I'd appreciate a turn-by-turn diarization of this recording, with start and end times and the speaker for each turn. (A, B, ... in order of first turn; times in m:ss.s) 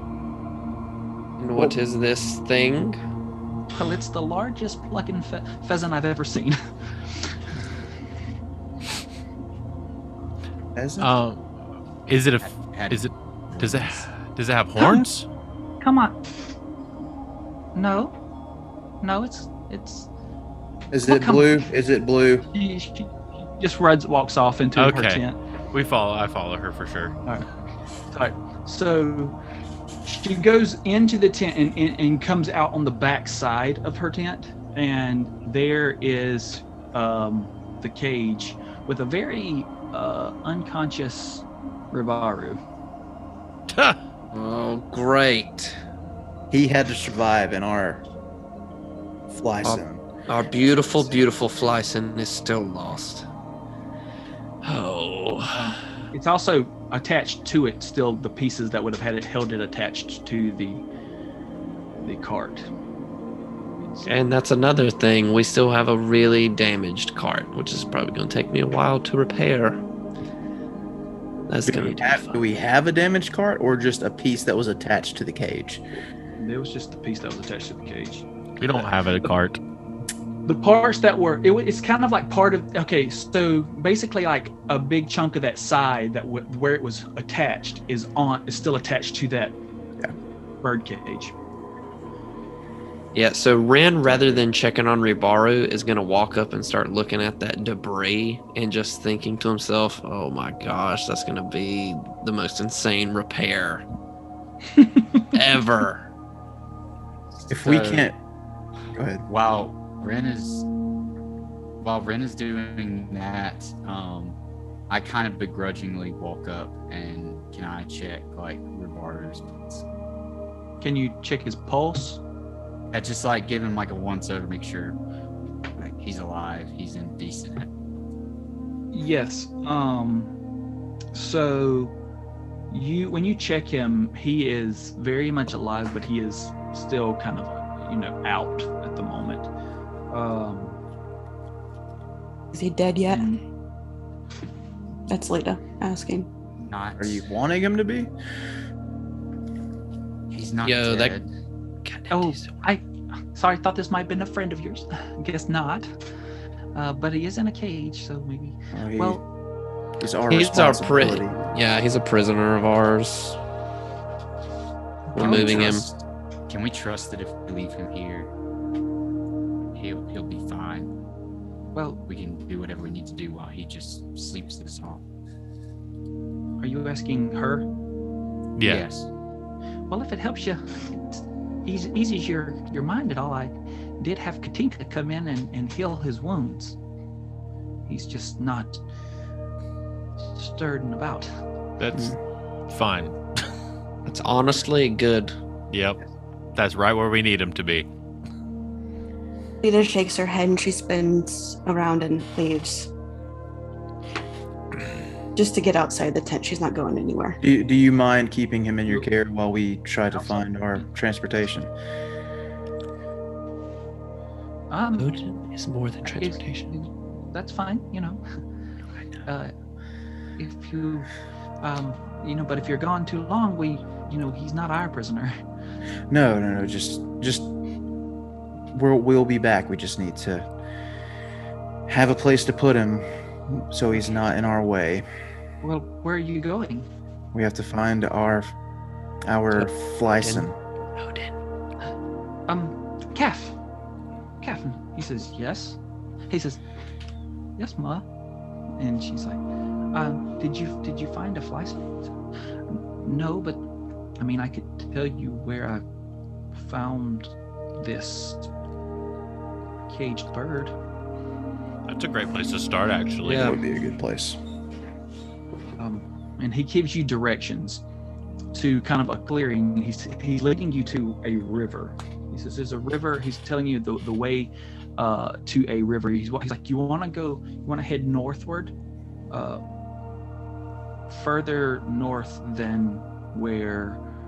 0:01.4-0:03.0 A
0:03.7-0:06.6 B
0:10.7-0:11.1 C
0:11.0-0:11.4 D
0:12.1-0:15.3 D
0:12.4-0:14.1 E
0:15.8-0:16.2 B
0:17.7-0:18.1 B
0:19.0-0:20.1 B
0:20.9-0:22.5 C
0:21.1-0:21.6 B
0:22.5-0:25.4 B
0:24.8-0:27.2 D
0:28.1-0:29.4 B
0:30.0-0:42.6 B
0:43.7-0:45.8 A
0:46.5-0:48.0 C
0:49.3-0:50.0 C
0:49.6-0:53.3 A
0:54.6-0:55.7 A
0:55.5-1:00.8 B
1:02.0-1:02.7 B
1:04.0-1:09.8 A
1:11.5-1:12.4 A
1:11.6-1:15.8 C
1:16.4-1:19.3 B
1:18.6-1:19.6 D
1:20.4-1:29.6 B
1:30.6-1:31.3 B
1:33.1-1:43.8 A
1:34.1-1:34.4 C
1:45.3-1:46.1 A
1:47.4-1:48.1 E
1:47.5-1:48.2 C
1:48.9-1:49.2 C
1:49.3-1:50.6 E
1:51.8-1:54.4 E
1:54.9-1:59.9 E
2:00.8-2:02.2 B
2:02.9-2:05.0 E
2:05.8-2:07.7 E
2:08.9-2:10.3 B
2:11.1-2:11.9 B
2:12.7-2:19.5 B
2:20.1-2:20.8 B
2:22.5-2:23.4 F
2:23.1-2:23.4 B
2:25.1-2:26.3 F
2:26.6-2:27.2 E
2:27.0-2:28.1 C
2:30.3-2:31.3 E
2:30.6-2:31.1 A
2:31.8-2:32.5 A
2:32.1-2:35.9 B
2:36.7-2:39.2 B
2:38.7-2:39.2 C
2:40.0-2:41.4 C
2:40.3-2:43.4 A
2:45.1-2:45.9 A
2:45.1-2:45.9 C
2:45.2-2:45.8 B
2:46.5-2:48.3 E
2:49.7-2:50.9 E
2:51.7-2:52.0 B
2:52.1-2:55.0 E
2:56.6-2:57.6 B
2:58.6-2:58.8 D
2:58.6-2:59.1 E
2:59.9-3:06.8 B
3:07.9-3:08.8 B
3:10.2-3:11.3 B
3:11.8-3:12.2 D
3:12.7-3:13.4 D
3:14.1-3:15.3 A
3:15.7-3:16.0 D
3:16.6-3:17.9 D
3:19.6-3:22.9 F
3:25.4-3:27.4 F
3:27.4-3:31.7 C
3:30.1-3:30.4 B
3:34.7-3:35.2 B
3:35.0-3:36.8 A
3:36.1-3:38.2 B
3:39.3-3:39.5 B
3:40.4-3:41.1 B
3:41.6-3:45.4 B
3:46.1-3:47.5 C
3:48.7-3:50.5 C
3:51.9-3:55.1 C
3:55.6-3:56.9 B
3:57.3-3:58.5 C
3:59.3-4:00.6 C
4:00.2-4:01.3 A
4:02.5-4:03.6 B
4:04.4-4:05.8 B
4:06.3-4:06.6 B
4:07.6-4:08.0 B
4:08.8-4:09.4 B
4:09.9-4:12.1 B
4:12.7-4:13.6 B
4:14.2-4:15.8 B
4:16.5-4:18.5 B
4:19.9-4:20.7 B
4:21.9-4:23.6 D
4:23.3-4:23.6 A
4:23.3-4:24.4 C
4:25.8-4:27.8 B
4:28.5-4:38.7 B
4:39.3-4:39.6 B
4:41.1-4:44.0 B